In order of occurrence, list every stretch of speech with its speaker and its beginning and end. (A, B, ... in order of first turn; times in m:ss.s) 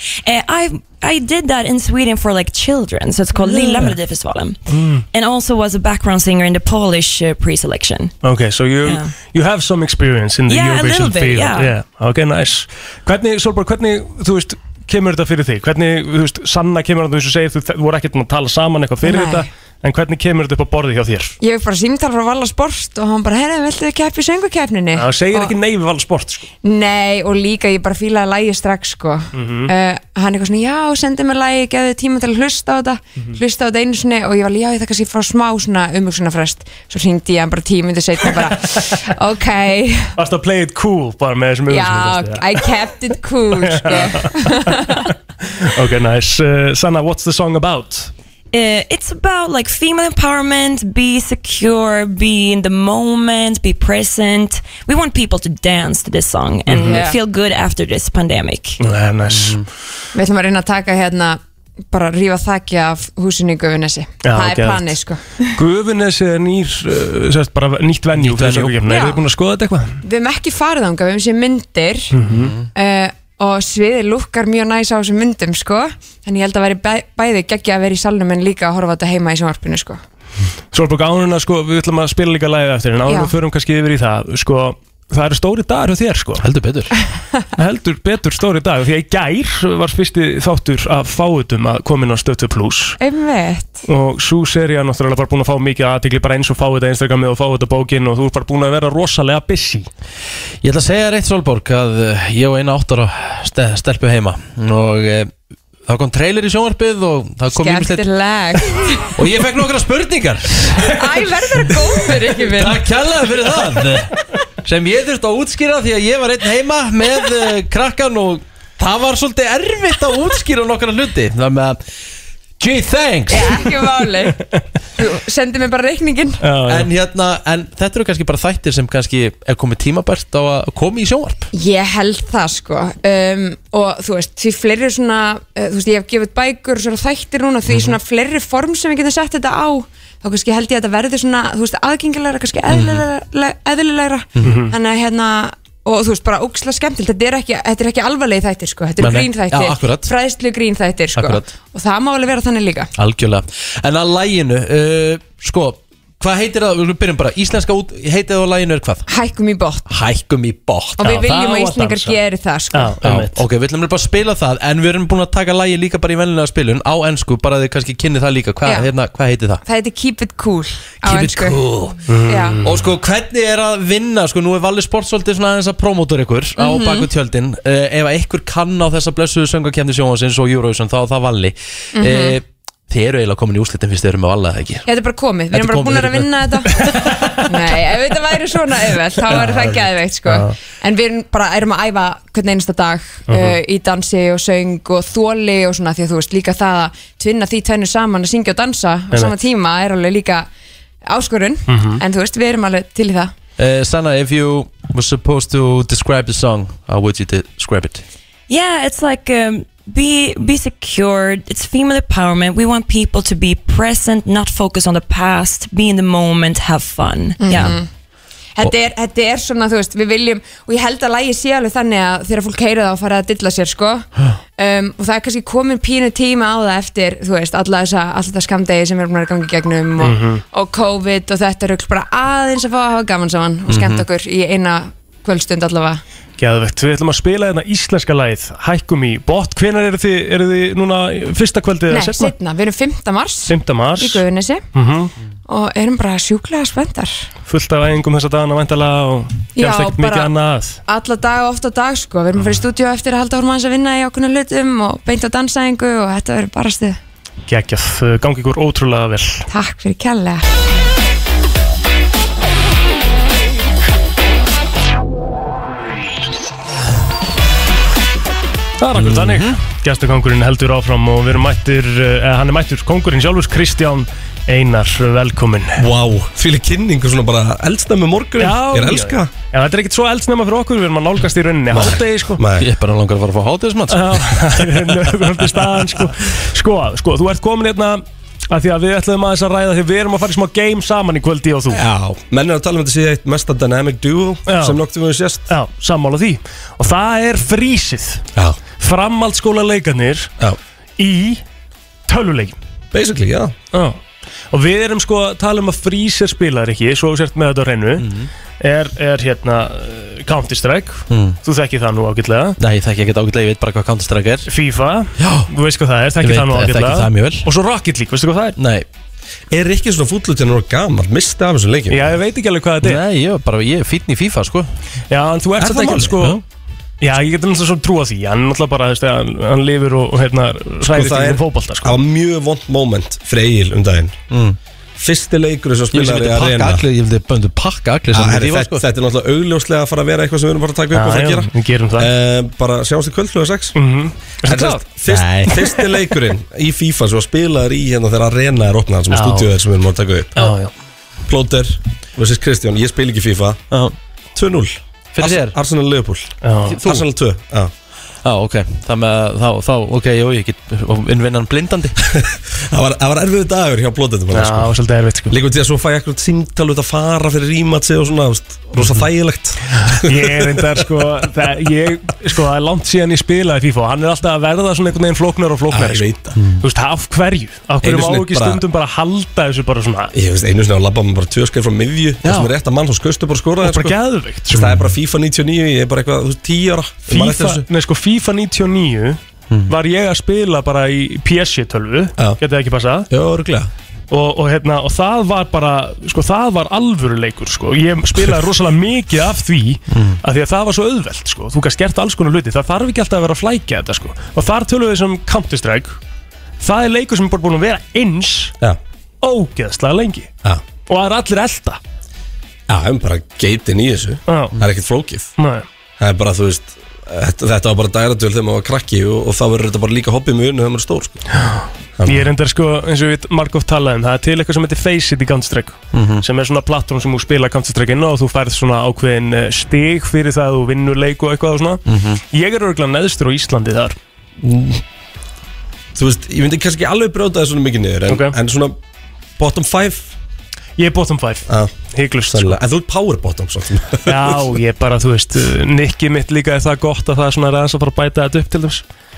0:00.2-0:04.6 A
0:03.4-0:04.0 B
0:04.7-0:05.0 B
0:05.1-0:08.1 A
0:08.2-0:21.3 B
0:08.8-0:09.1 A
0:10.5-0:11.7 A
0:19.0-0:19.5 C
0:21.4-0:25.6 C
0:25.0-0:26.5 B
0:26.6-0:40.1 C
0:29.3-0:29.7 B
0:40.2-0:42.5 B
0:41.7-0:45.1 C
0:43.6-0:48.1 B
0:48.5-0:58.8 A
0:56.7-0:57.0 B
0:56.8-0:57.2 C
0:58.8-0:59.6 B
0:59.3-0:59.7 D
1:00.2-1:01.4 C
1:01.9-1:05.2 C
1:04.2-1:05.0 B
1:05.6-1:10.0 B
1:08.2-1:08.8 D
1:08.9-1:09.2 C
1:10.0-1:12.1 C
1:12.1-1:12.6 B
1:12.2-1:12.7 D
1:12.8-1:20.0 C
1:20.7-1:26.4 B
1:23.1-1:23.3 C
1:26.4-1:27.0 D
1:27.6-1:33.0 B
1:33.0-1:33.8 C
1:33.8-1:39.9 B
1:40.6-1:45.3 D
1:45.9-1:48.1 D
1:47.5-1:49.0 C
1:49.2-1:51.1 D
1:50.9-1:52.8 C
1:52.5-1:54.1 D
1:54.6-2:01.8 D
2:02.6-2:03.8 D
2:03.3-2:04.4 C
2:05.0-2:06.4 C
2:06.4-2:06.9 B
2:06.7-2:11.5 D
2:11.5-2:32.9 C
2:17.7-2:18.0 D
2:22.7-2:23.1 D
2:24.4-2:24.6 D
2:24.4-2:24.7 B
2:29.0-2:30.1 D
2:31.2-2:31.5 D
2:33.0-2:39.1 D
2:39.1-2:39.8 C
2:39.9-2:41.4 D
2:41.0-2:43.0 C
2:41.0-2:42.2 B
2:42.7-2:43.4 B
2:43.0-2:49.6 D
2:48.6-2:48.9 C
2:49.6-2:51.6 C
2:51.0-2:52.0 D
2:52.1-2:52.9 B
2:52.3-2:52.6 C
2:52.6-3:04.9 D
2:56.6-2:57.1 C
3:02.0-3:02.4 C
3:04.9-3:06.8 C
3:05.5-3:06.6 D
3:06.8-3:07.4 B
3:07.5-3:20.5 C
3:09.3-3:09.7 D
3:10.3-3:10.5 B
3:13.3-3:13.6 B
3:21.1-3:23.3 C
3:21.7-3:22.0 B
3:23.6-3:28.0 D
3:28.5-3:37.8 A
3:37.4-3:37.9 C
3:38.6-3:56.0 C
3:50.0-3:50.4 B
3:53.7-3:54.1 D
3:56.4-4:02.3 B
4:01.9-4:04.6 C
4:03.5-4:04.2 B
4:04.7-4:05.1 B
4:05.5-4:07.3 C
4:07.5-4:10.8 B
4:09.6-4:10.3 C
4:10.9-4:17.0 C
4:17.5-4:19.4 B
4:19.5-4:20.5 C
4:28.8-4:35.8 B
4:29.0-4:29.6 D
4:35.8-4:39.3 E
4:38.4-4:42.4 B
4:41.7-4:42.7 E
4:42.6-4:45.0 D
4:43.9-4:51.8 B
4:51.7-4:55.5 E
4:54.5-4:54.8 B
4:55.5-4:58.2 B
4:58.8-5:00.3 B
5:01.0-5:01.4 B
5:02.1-5:02.6 B
5:02.9-5:03.5 E
5:03.7-5:04.0 B
5:04.5-5:08.1 B
5:08.0-5:08.3 D
5:08.6-5:12.6 B
5:11.1-5:11.4 D
5:12.6-5:14.5 D
5:14.5-5:18.6 B
5:15.2-5:15.5 D
5:16.2-5:17.5 D
5:18.6-5:18.9 D
5:19.5-5:22.1 E
5:21.9-5:23.0 B
5:22.8-5:24.7 D
5:25.1-5:26.4 B
5:25.6-5:26.2 E
5:26.2-5:26.4 D
5:27.0-5:32.0 B
5:30.8-5:34.2 E
5:34.3-5:34.6 D
5:35.0-5:36.8 E
5:35.9-5:38.8 D
5:38.1-5:43.8 E
5:40.9-5:42.1 B
5:43.8-5:44.9 B
5:44.4-5:50.5 E
5:45.1-5:45.5 D
5:45.5-5:45.8 B
5:49.1-5:49.5 B
5:50.4-5:50.7 B
5:51.3-5:53.6 E
5:54.4-5:57.7 E
5:55.2-5:55.6 D
5:56.4-5:56.8 B
5:56.7-5:57.0 D
5:58.2-6:02.0 D
6:02.2-6:04.8 E
6:04.3-6:05.4 B
6:05.3-6:10.8 E
6:08.8-6:09.1 B
6:09.7-6:20.1 B
6:15.7-6:16.3 E
6:16.4-6:16.6 D
6:17.8-6:18.6 E
6:20.1-6:24.0 E
6:23.6-6:24.7 B
6:24.5-6:27.7 E
6:24.5-6:24.8 D
6:27.1-6:33.1 B
6:33.1-6:33.7 E
6:34.1-6:46.0 B
6:39.9-6:40.2 D
6:46.6-6:48.6 B
6:49.2-6:50.3 B
6:50.9-6:51.8 B
6:52.7-6:55.3 E
6:54.3-6:54.6 B
6:55.4-6:55.7 B
6:56.0-7:01.2 E
7:01.4-7:14.0 B
7:02.0-7:02.3 E
7:05.9-7:06.2 D
7:11.9-7:12.2 D
7:14.4-7:14.8 E
7:16.0-7:18.8 E
7:18.1-7:18.4 B
7:19.4-7:20.1 E
7:20.8-7:22.6 B
7:21.5-7:21.8 E
7:22.3-7:24.5 E
7:24.0-7:28.8 B